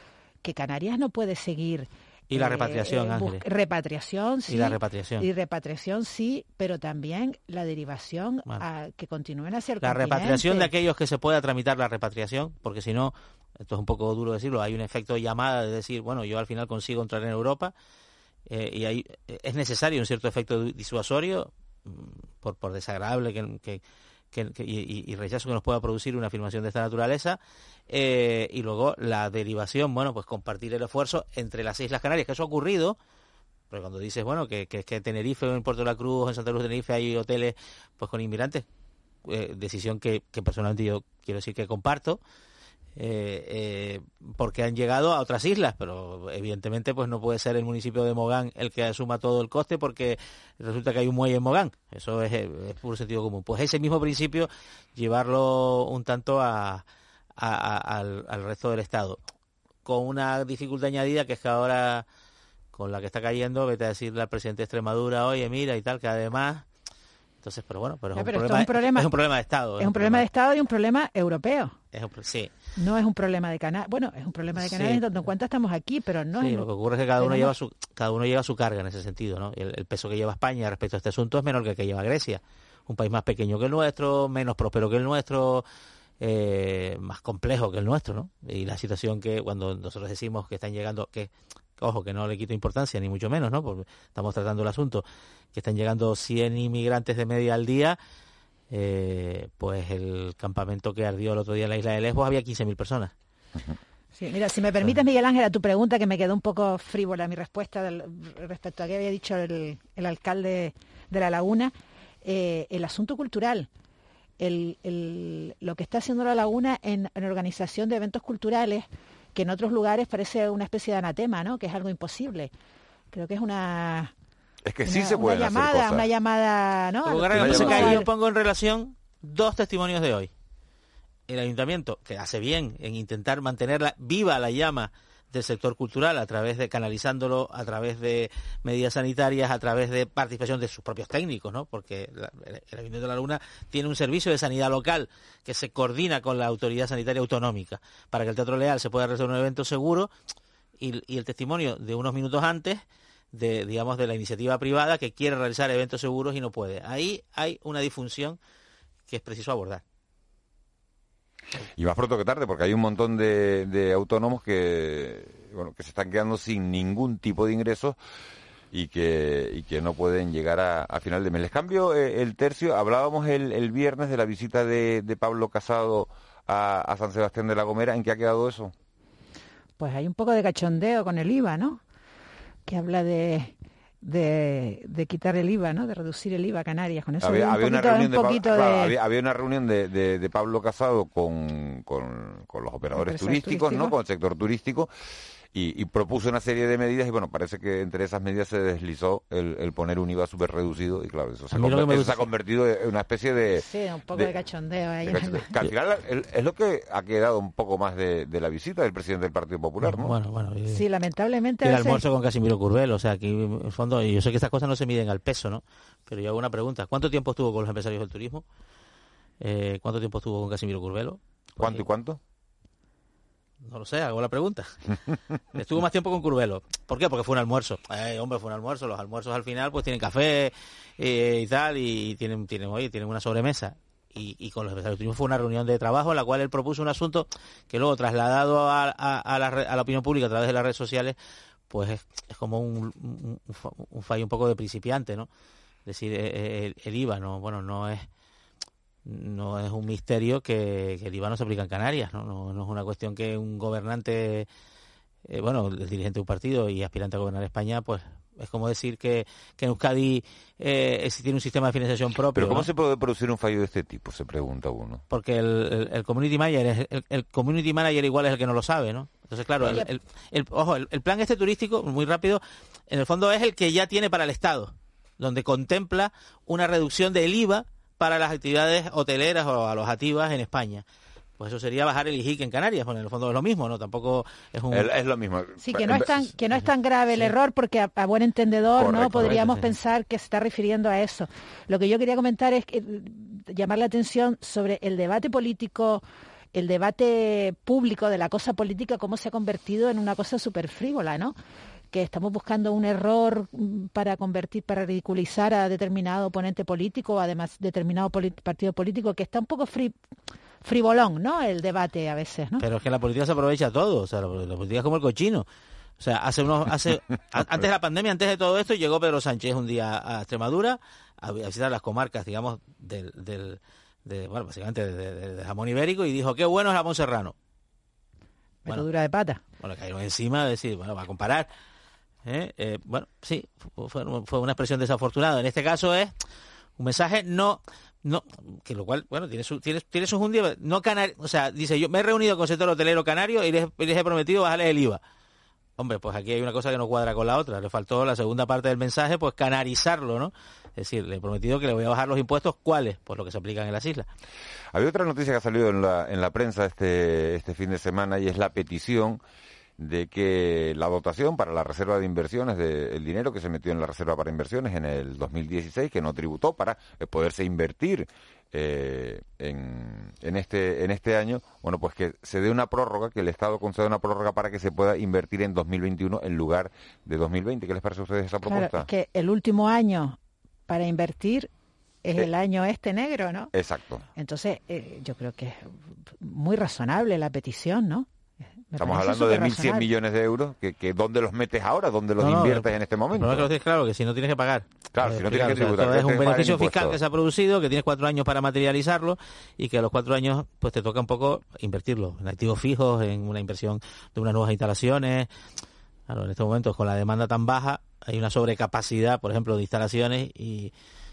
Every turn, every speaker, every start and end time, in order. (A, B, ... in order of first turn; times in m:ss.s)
0:00.4-0:10.7 A
0:02.3-0:03.4 B
0:04.5-0:05.3 B
0:09.8-0:17.7 B
0:18.5-0:33.0 B
0:33.7-0:38.6 B
0:39.2-0:42.2 B
0:43.0-0:56.8 B
0:57.4-0:59.2 B
0:59.8-1:02.0 B
1:02.7-1:06.6 B
1:07.4-1:10.3 B
1:08.1-1:09.1 A
1:09.8-1:11.7 A
1:11.9-1:12.5 B
1:12.8-1:17.5 A
1:14.5-1:15.0 B
1:16.3-1:25.6 B
1:26.2-1:38.0 B
1:38.7-1:43.1 B
1:44.1-1:53.7 A
1:54.4-2:02.5 A
2:03.1-2:04.1 A
2:04.6-2:06.1 C
2:04.8-2:08.1 A
2:07.0-2:10.3 B
2:07.4-2:08.0 C
2:11.3-2:30.1 B
2:30.8-2:32.8 B
2:33.3-2:38.4 B
2:39.1-2:39.8 B
2:41.8-2:48.0 C
2:48.7-2:58.7 C
2:59.8-3:01.8 A
3:02.7-3:09.0 A
3:07.2-3:14.9 C
3:12.9-3:14.0 A
3:15.5-3:24.3 C
3:21.5-3:22.2 B
3:23.6-3:25.7 A
3:25.0-3:30.1 C
3:29.8-3:30.8 B
3:30.7-3:32.0 A
3:31.6-3:38.4 B
3:39.4-3:41.8 B
3:41.6-3:42.2 C
3:43.6-3:44.7 B
3:45.5-4:01.2 B
4:01.7-4:05.3 B
4:05.8-4:08.1 B
4:09.0-4:14.5 B
4:15.3-4:22.7 B
4:22.3-4:25.0 C
4:25.1-4:40.8 B
4:29.6-4:29.9 A
4:41.4-4:44.9 B
4:44.7-4:46.3 C
4:45.6-5:01.4 A
4:48.8-4:49.5 C
4:49.2-4:49.7 B
5:01.9-5:10.0 A
5:10.6-5:12.6 A
5:12.6-5:15.4 B
5:16.0-5:27.3 B
5:28.6-5:29.4 A
5:29.6-5:31.5 B
5:32.2-5:36.1 B
5:36.8-5:45.0 B
5:45.8-5:54.1 B
5:54.7-5:59.2 C
5:59.8-6:18.9 C
6:18.4-6:20.2 A
6:20.7-6:21.5 A
6:22.0-6:23.5 A
6:23.5-6:24.0 C
6:24.2-6:28.1 A
6:28.7-6:29.9 A
6:28.8-6:33.5 C
6:32.2-6:45.3 B
6:34.9-6:37.0 C
6:46.1-6:50.7 B